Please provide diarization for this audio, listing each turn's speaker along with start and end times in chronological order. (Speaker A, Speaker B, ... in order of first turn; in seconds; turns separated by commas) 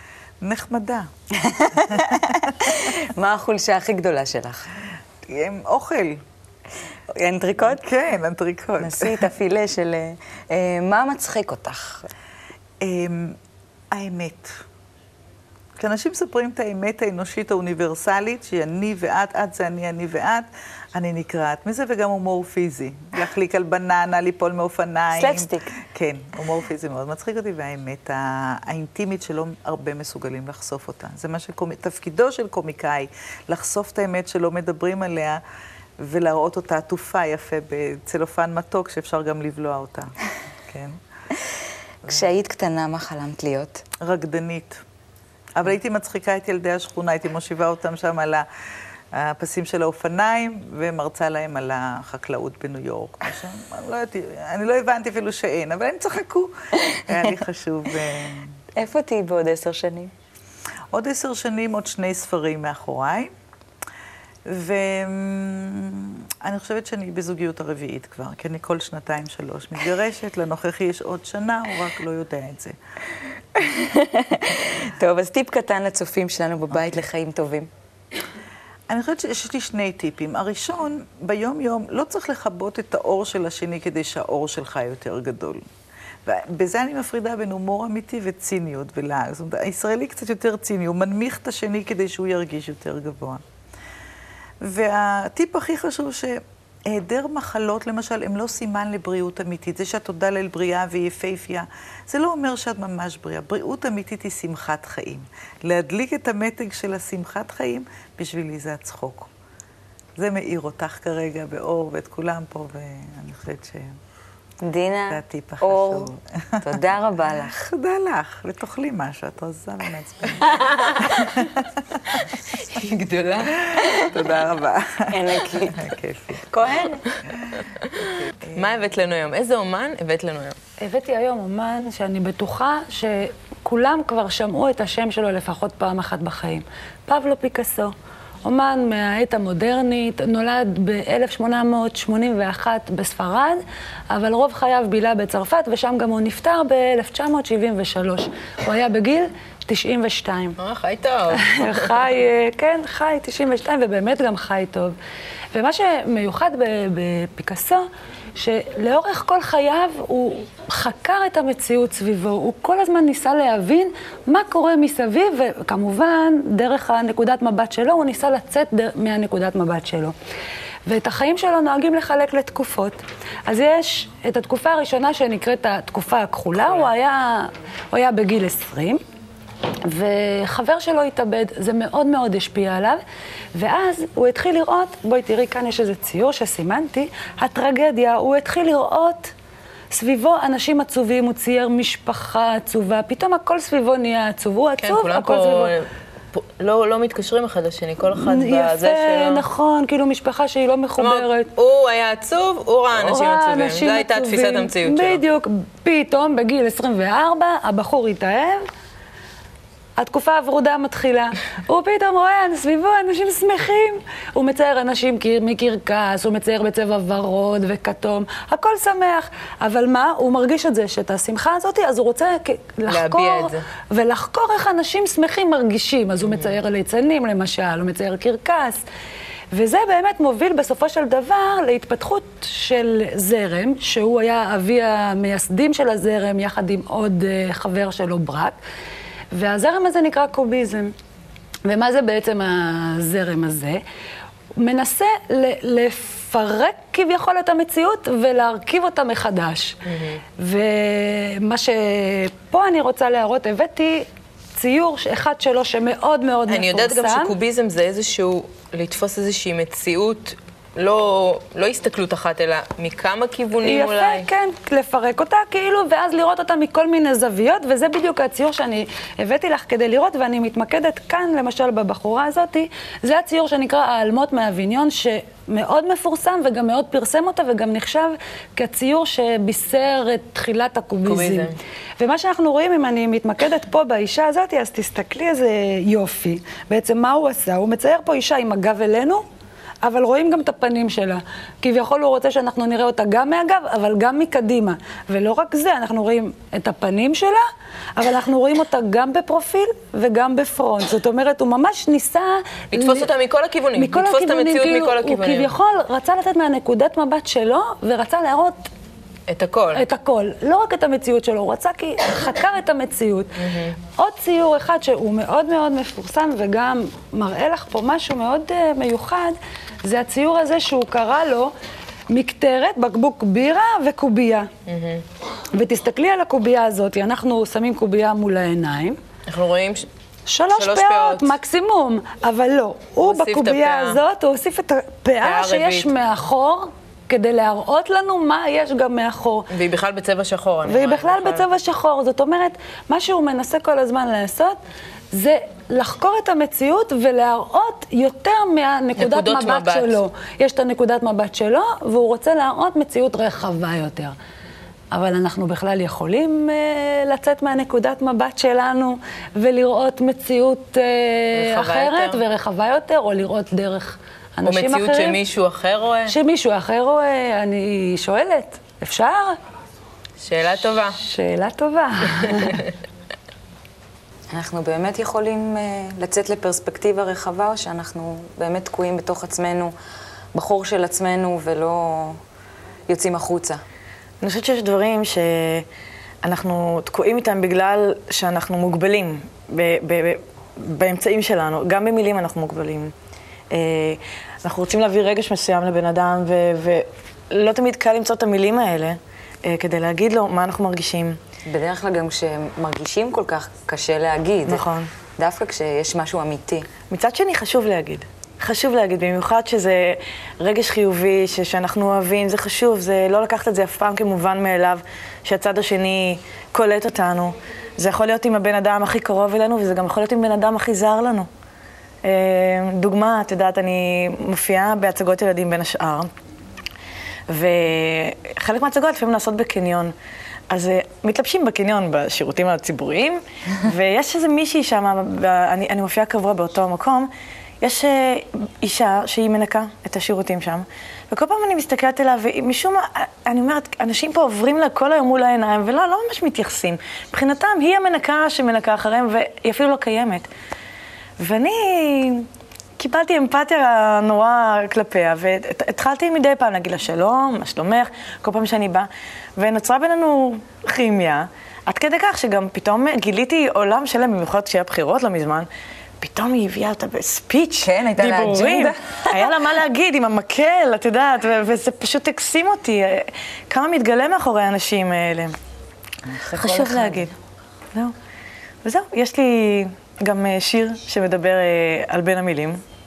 Speaker A: 0.4-1.1, Speaker B: 1.4-4.8, Speaker A: 1.8-2.9, Speaker A: 5.2-6.2, Speaker B: 7.1-7.8, Speaker A: 7.6-9.3, Speaker B: 8.8-12.1, Speaker A: 12.8-13.4, Speaker A: 13.9-14.6, Speaker A: 15.8-35.4, Speaker B: 25.1-25.7, Speaker A: 36.0-40.1, Speaker A: 40.7-41.0, Speaker B: 41.3-43.9, Speaker A: 44.0-44.8, Speaker A: 45.6-48.5, Speaker A: 49.1-58.6, Speaker B: 58.8-60.1, Speaker A: 60.9-63.3, Speaker A: 64.5-72.8, Speaker B: 73.6-77.7, Speaker A: 76.7-77.0, Speaker A: 78.9-85.7, Speaker A: 86.3-93.4, Speaker A: 94.6-109.3, Speaker A: 110.2-114.0, Speaker B: 114.6-117.5, Speaker A: 115.1-116.8, Speaker A: 117.4-122.2, Speaker C: 120.7-121.0, Speaker C: 122.4-124.1, Speaker A: 123.8-126.5, Speaker B: 125.1-127.0, Speaker C: 127.8-130.6, Speaker A: 128.0-128.8, Speaker D: 130.8-137.9, Speaker D: 138.4-150.6, Speaker C: 150.6-151.9, Speaker D: 151.3-154.9, Speaker D: 155.5-170.2, Speaker D: 170.9-179.0, Speaker C: 176.6-176.9, Speaker D: 179.9-183.0, Speaker D: 183.6-189.3, Speaker D: 189.9-195.8, Speaker C: 194.8-199.5, Speaker D: 198.2-201.5, Speaker C: 201.0-205.2, Speaker D: 202.9-208.7, Speaker D: 210.0-228.8, Speaker C: 222.9-223.6, Speaker C: 226.2-226.6, Speaker D: 229.5-238.6, Speaker D: 239.3-240.9, Speaker D: 241.7-243.8, Speaker D: 244.6-249.8, Speaker C: 249.9-250.2, Speaker D: 250.4-257.3, Speaker C: 256.5-264.3, Speaker D: 263.6-289.3, Speaker C: 281.1-281.6, Speaker D: 289.8-297.4, Speaker D: 298.0-303.1, Speaker C: 302.7-305.6, Speaker D: 303.7-308.7, Speaker C: 309.3-309.9, Speaker D: 309.7-313.3, Speaker C: 313.4-313.8, Speaker D: 314.0-321.5, Speaker D: 322.1-324.5, Speaker C: 324.7-325.0, Speaker D: 325.5-329.0, Speaker C: 329.3-329.9, Speaker D: 330.3-339.5, Speaker C: 330.5-331.3, Speaker C: 333.0-334.0, Speaker C: 335.2-335.9, Speaker C: 339.5-341.5, Speaker D: 340.7-344.6, Speaker D: 345.1-354.1, Speaker C: 349.0-350.0, Speaker D: 354.9-365.2, Speaker C: 361.3-362.2, Speaker C: 364.4-366.2, Speaker D: 366.1-369.4, Speaker C: 370.2-371.0, Speaker D: 370.9-372.6, Speaker C: 372.2-372.7, Speaker B: 374.3-379.7, Speaker B: 380.3-382.2, Speaker B: 382.9-383.6, Speaker E: 384.2-385.7, Speaker E: 386.2-392.9, Speaker E: 393.5-401.2, Speaker B: 401.5-404.6, Speaker E: 404.5-404.9, Speaker B: 405.2-406.7, Speaker E: 406.9-421.3, Speaker E: 422.0-426.1, Speaker E: 427.3-429.9, Speaker E: 430.5-450.3, Speaker E: 451.2-452.3, Speaker E: 452.8-465.5, Speaker E: 466.0-475.4, Speaker B: 467.6-469.5, Speaker E: 476.3-477.1, Speaker B: 476.3-477.1, Speaker E: 478.6-482.6